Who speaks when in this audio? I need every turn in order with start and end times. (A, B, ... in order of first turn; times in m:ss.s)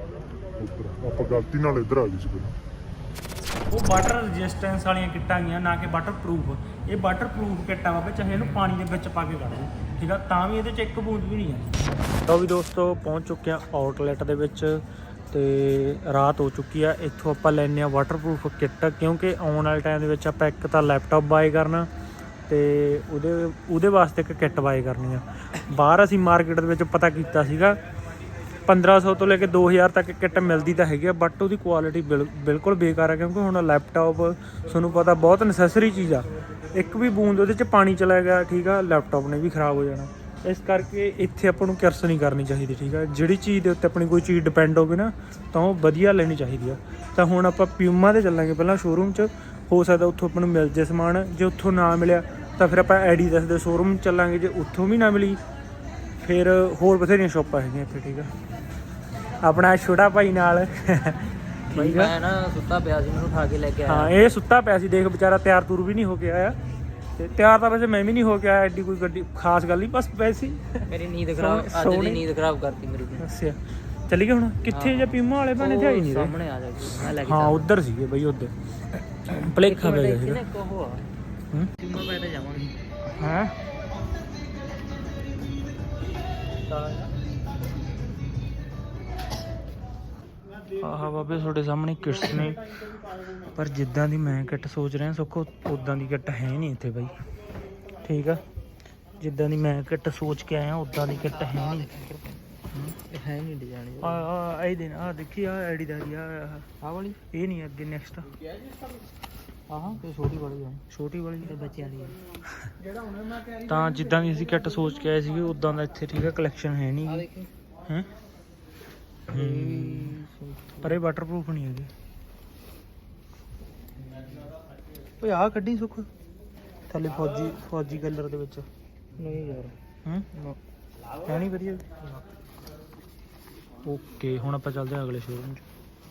0:00.6-0:02.6 A
0:03.7-0:21.9 B
0:08.4-0:08.8 C
0:22.5-0:27.8 B
0:28.7-0:55.4 B
0:56.2-0:58.3 B
0:59.4-1:02.1 B
1:01.7-1:04.2 C
1:03.9-1:06.6 B
1:07.2-1:10.9 B
1:10.9-1:13.3 C
1:11.4-1:12.2 B
1:13.2-1:13.6 B
1:14.1-1:16.3 B
1:14.7-1:17.7 C
1:17.2-1:18.5 B
1:19.3-1:20.4 B
1:19.3-1:21.1 C
1:21.8-1:22.8 C
1:23.2-1:23.6 B
1:26.7-1:27.0 C
1:30.8-1:32.6 B
1:33.5-1:37.1 B
1:38.0-1:38.4 B
1:39.2-1:41.9 B
1:41.2-1:42.6 C
1:43.1-1:44.3 C
1:44.0-1:46.7 B
1:46.8-1:47.2 C
1:47.3-1:48.3 B
1:49.7-1:50.8 C
1:50.9-1:51.5 B
1:51.4-1:52.2 C
1:53.4-1:57.3 B
1:57.1-1:57.5 C
1:59.3-2:00.2 B
1:59.3-2:01.0 C
2:00.8-2:01.9 B
2:05.2-2:06.1 B
2:06.9-2:08.6 B
2:09.2-2:09.8 C
2:11.2-2:11.8 B
2:13.8-2:15.6 B